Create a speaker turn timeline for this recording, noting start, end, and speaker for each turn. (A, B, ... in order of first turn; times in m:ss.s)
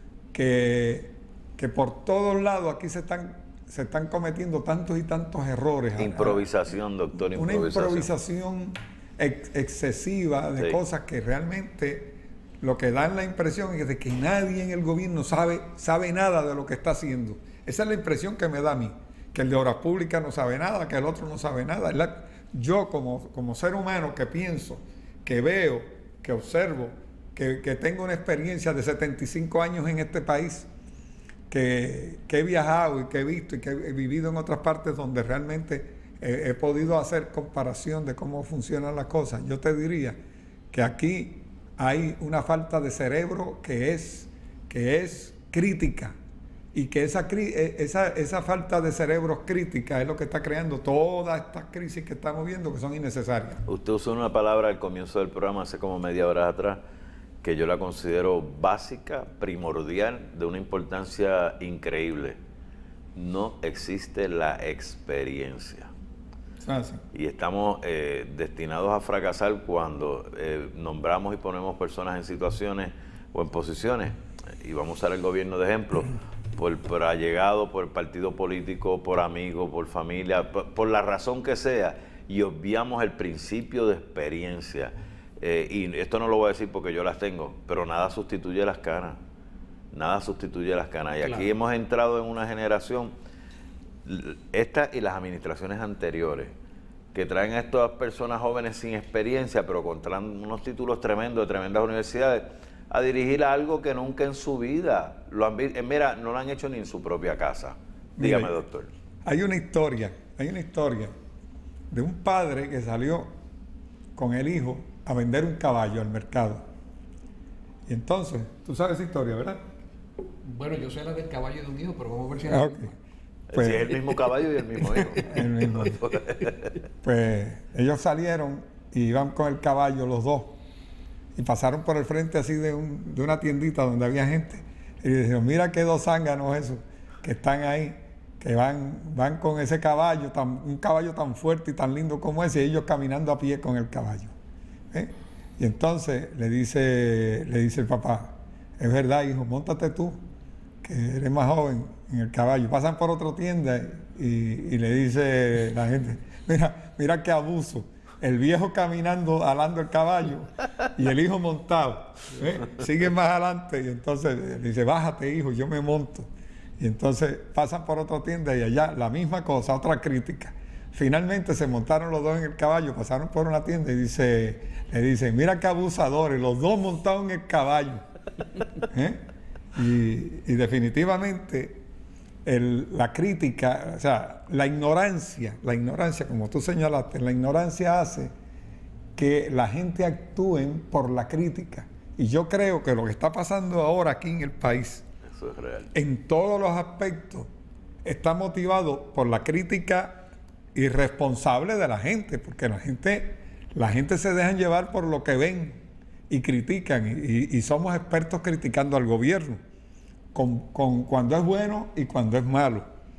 0:00.3-0:06.5 A
0:06.0-0:08.1 B
0:07.2-0:30.7 A
0:31.5-0:40.2 A
0:40.7-0:46.1 A
0:46.7-0:53.6 A
0:53.6-0:56.8 B
0:57.4-1:02.4 B
1:03.1-1:05.9 B
1:06.6-1:07.0 A
1:07.1-1:29.2 B
1:29.9-1:33.1 B
1:34.0-1:36.5 B
1:37.1-1:48.9 B
1:48.2-1:48.6 A
1:49.2-1:51.1 A
1:51.9-1:53.3 A
1:54.2-1:56.6 A
1:57.9-1:59.6 A
2:00.5-2:02.9 C
2:02.5-2:02.9 A
2:03.5-2:06.8 B
2:03.5-2:03.9 A
2:05.2-2:06.0 A
2:07.0-2:10.6 A
2:11.4-2:24.3 A
2:24.9-2:30.2 A
2:30.8-2:46.3 A
2:46.8-2:58.0 A
2:58.9-2:59.2 A
2:59.7-3:01.8 A
3:02.4-3:08.3 A
3:09.2-3:15.0 A
3:15.3-3:15.9 B
3:15.9-3:17.5 A
3:18.0-3:29.6 A
3:30.3-3:32.8 A